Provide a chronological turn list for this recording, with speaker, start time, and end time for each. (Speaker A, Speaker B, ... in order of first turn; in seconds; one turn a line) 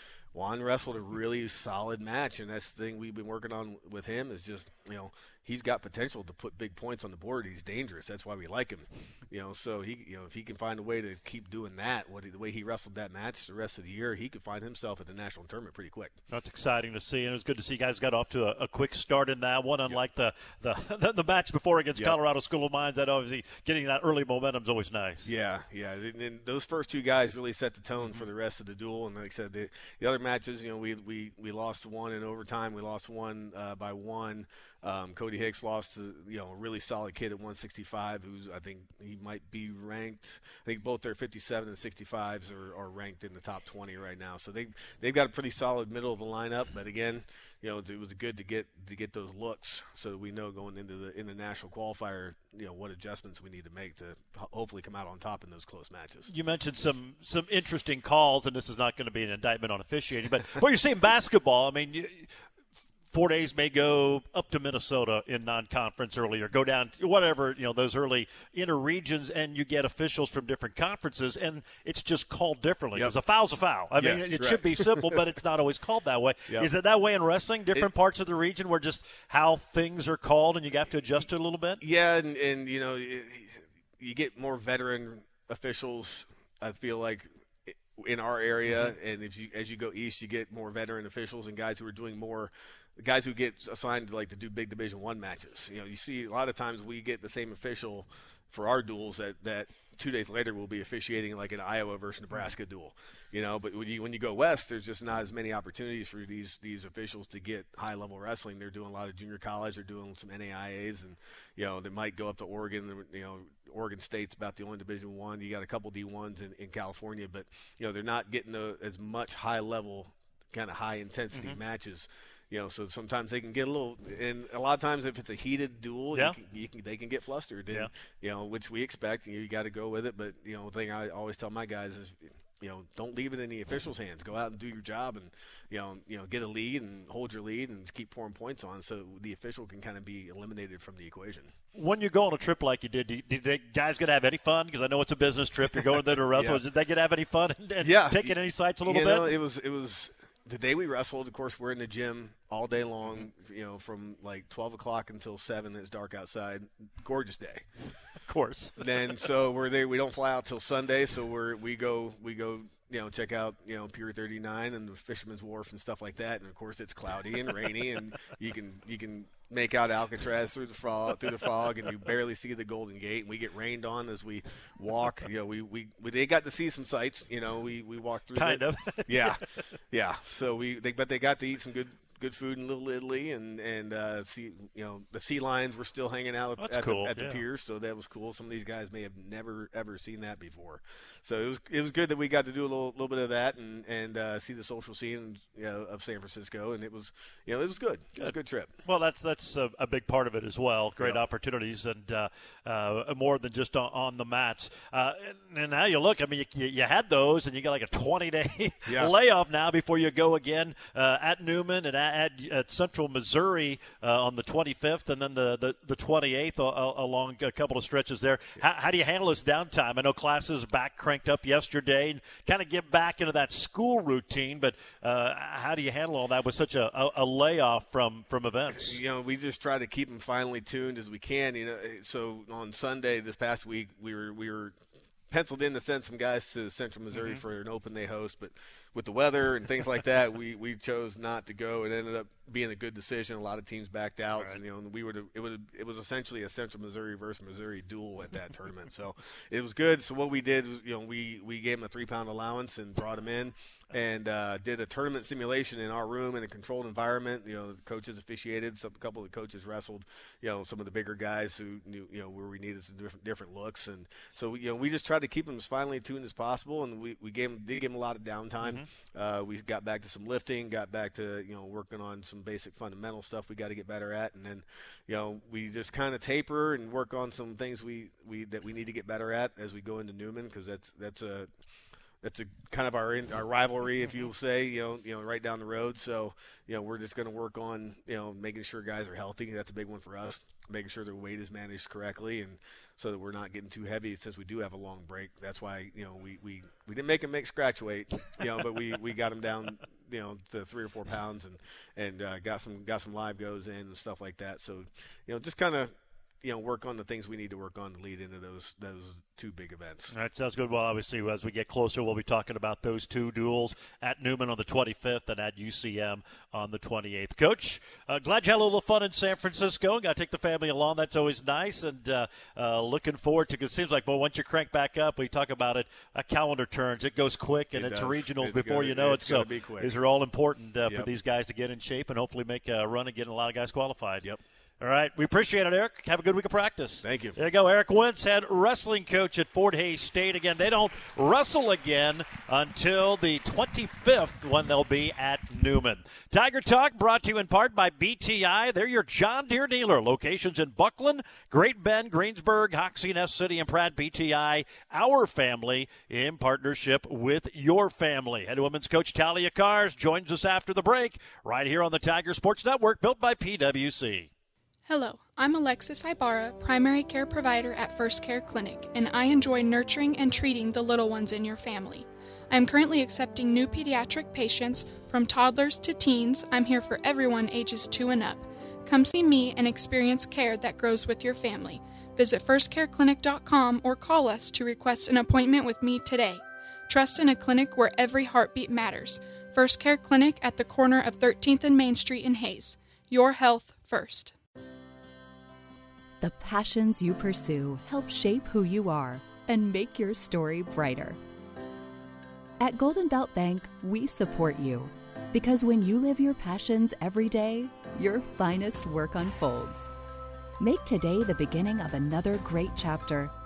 Speaker A: 0.3-16.2
Speaker B: 16.3-25.3
Speaker A: 25.2-56.3
Speaker B: 56.3-62.3
Speaker B: 63.1-81.8
Speaker A: 74.0-75.2
Speaker A: 81.8-141.5
Speaker B: 88.7-88.9
Speaker B: 141.7-149.3
Speaker A: 146.3-146.6
Speaker A: 147.8-157.6
Speaker B: 158.3-158.8
Speaker A: 158.8-198.7
Speaker B: 178.3-179.4
Speaker B: 186.6-187.4
Speaker B: 198.8-229.0
Speaker A: 208.9-209.1
Speaker A: 228.7-234.8
Speaker A: 235.3-281.5
Speaker B: 237.1-237.4
Speaker B: 268.6-268.9
Speaker A: 282.2-310.1
Speaker B: 310.1-334.2
Speaker A: 327.7-330.0
Speaker B: 334.8-364.3
Speaker A: 337.0-337.4
Speaker C: 364.9-394.3
Speaker D: 396.2-401.2
Speaker D: 402.6-409.9
Speaker D: 410.6-413.3